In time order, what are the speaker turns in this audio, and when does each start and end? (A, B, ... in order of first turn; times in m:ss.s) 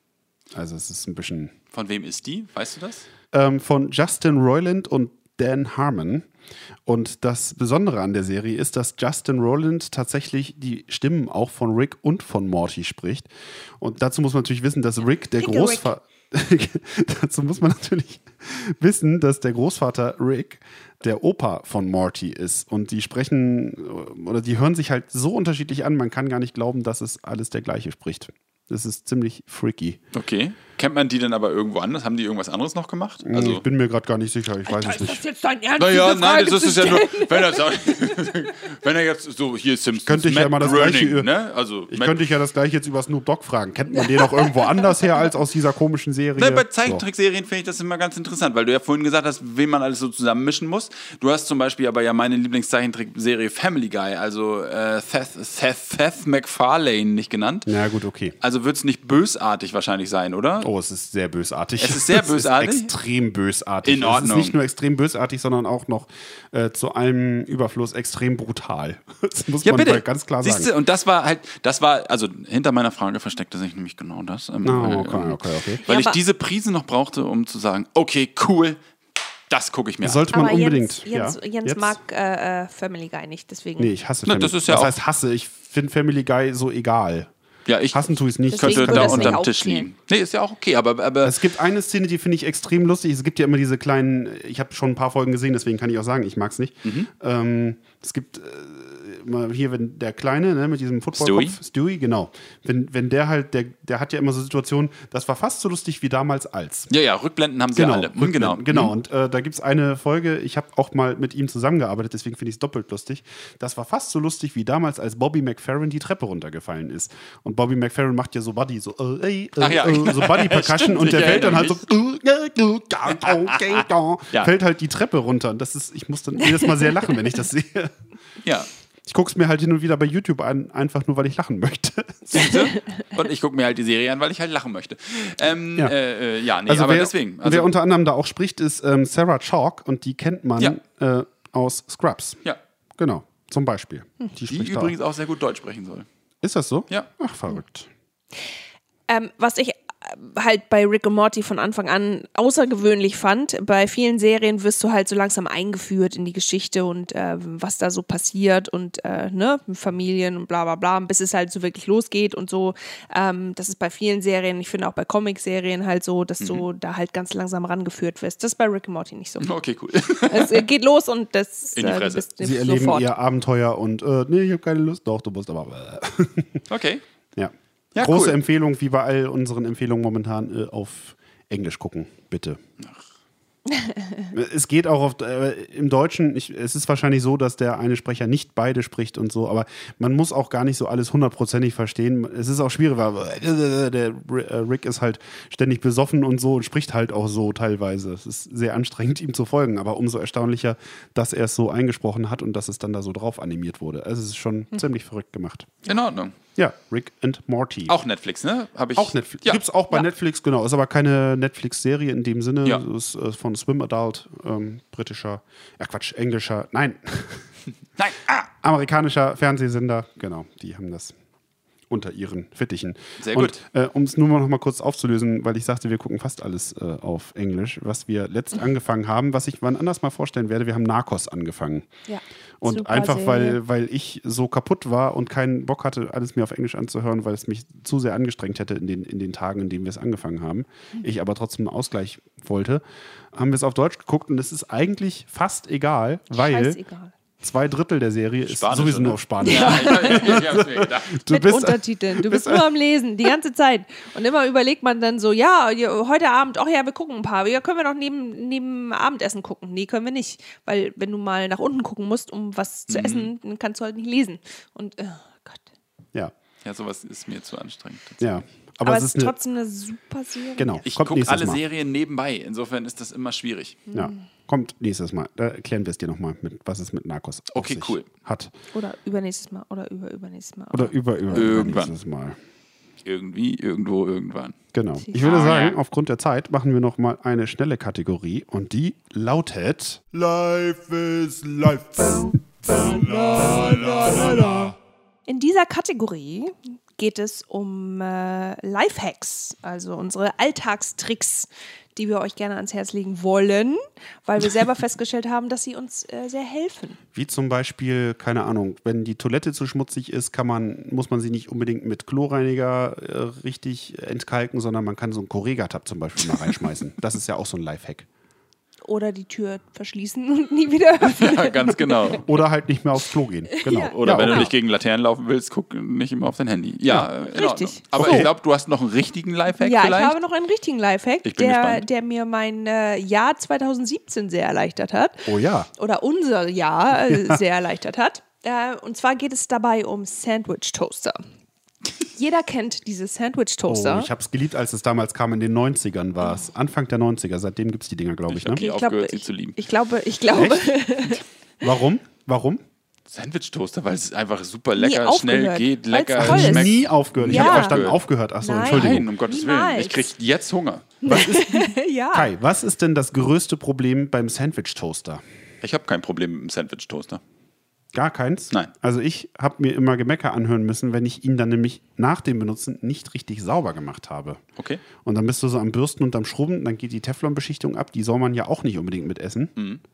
0:00.5-0:01.5 A
0:01.7-0:03.1 B
0:03.3-0:06.3 A
0:06.8-0:30.0 A
0:15.4-0:15.9 C
0:30.1-0:33.6 B
0:33.2-0:35.2 A
0:34.6-0:38.2 C
0:35.8-0:42.2 B
0:40.0-0:41.3 A
0:41.9-0:47.0 A
0:44.2-0:44.7 C
0:46.4-0:57.7 B
0:57.6-0:58.3 A
0:58.4-1:00.7 B
1:00.6-1:10.7 A
1:01.8-1:02.9 B
1:03.8-1:04.6 B
1:09.6-1:18.8 B
1:14.6-1:15.8 A
1:15.8-1:16.2 C
1:19.5-1:20.4 B
1:20.0-1:22.0 A
1:20.3-1:23.9 C
1:23.8-1:27.3 A
1:24.2-1:24.9 B
1:27.7-1:31.4 B
1:27.9-1:29.4 A
1:28.5-1:29.9 C
1:31.2-1:46.9 A
1:41.1-1:41.6 B
1:46.9-1:48.9 B
1:47.7-2:07.9 A
1:59.6-2:01.8 B
2:03.2-2:04.5 B
2:08.4-2:08.7 B
2:09.0-2:12.4 A
2:12.3-2:17.7 B
2:16.6-2:22.4 A
2:23.0-2:24.9 A
2:24.5-2:26.1 B
2:26.4-2:27.9 A
2:29.1-2:49.5 C
2:46.4-2:46.6 B
2:49.4-2:50.6 B
2:50.3-2:53.1 C
2:51.7-2:52.2 B
2:52.4-2:56.6 A
2:56.7-2:57.0 B
2:57.4-3:02.6 A
2:57.9-2:58.4 B
3:02.8-3:03.1 B
3:03.7-3:04.3 C
3:04.3-3:25.9 A
3:25.8-3:26.3 B
3:26.5-3:27.9 A
3:27.9-3:29.6 B
3:29.0-3:37.5 A
3:38.0-3:38.4 B
3:38.4-3:41.2 A
3:41.9-3:51.9 A
3:43.2-3:43.6 B
3:52.1-3:53.6 C
3:52.6-4:06.8 A
4:06.3-4:07.1 C
4:07.4-4:12.7 A
4:08.4-4:11.2 B
4:09.4-4:10.4 C
4:11.3-4:25.6 C
4:22.9-4:23.3 B
4:26.6-4:28.3 B
4:28.2-4:29.3 A
4:28.8-4:30.8 C
4:30.6-4:31.6 A
4:30.8-4:33.8 B
4:33.9-4:34.2 C
4:33.9-4:38.5 A
4:37.5-4:38.1 B
4:38.7-4:41.8 C
4:40.7-4:42.4 A
4:41.3-4:41.9 B
4:43.0-4:44.6 B
4:44.7-4:54.8 A
4:45.2-4:45.8 B
4:52.7-4:54.7 C
4:55.3-5:07.0 C
5:07.1-5:18.1 A
5:18.8-5:22.2 C
5:21.0-5:22.2 B
5:22.2-5:24.5 A
5:23.6-5:24.5 C
5:23.7-5:30.1 B
5:27.2-5:28.3 C
5:27.9-5:28.3 A
5:29.6-5:41.2 C
5:31.2-5:31.8 B
5:35.2-5:35.7 A
5:37.1-5:37.3 A
5:42.1-5:44.1 C
5:43.7-5:48.6 A
5:48.3-5:49.6 B
5:48.6-5:51.2 C
5:50.3-5:52.6 A
5:53.1-5:58.0 B
5:54.8-5:57.8 C
5:56.2-5:59.1 A
5:58.4-6:00.1 C
5:58.6-6:00.8 B
6:01.0-6:02.3 C
6:01.1-6:05.2 A
6:05.6-6:07.2 B
6:07.9-6:14.4 A
6:14.6-6:14.8 B
6:15.0-6:19.6 A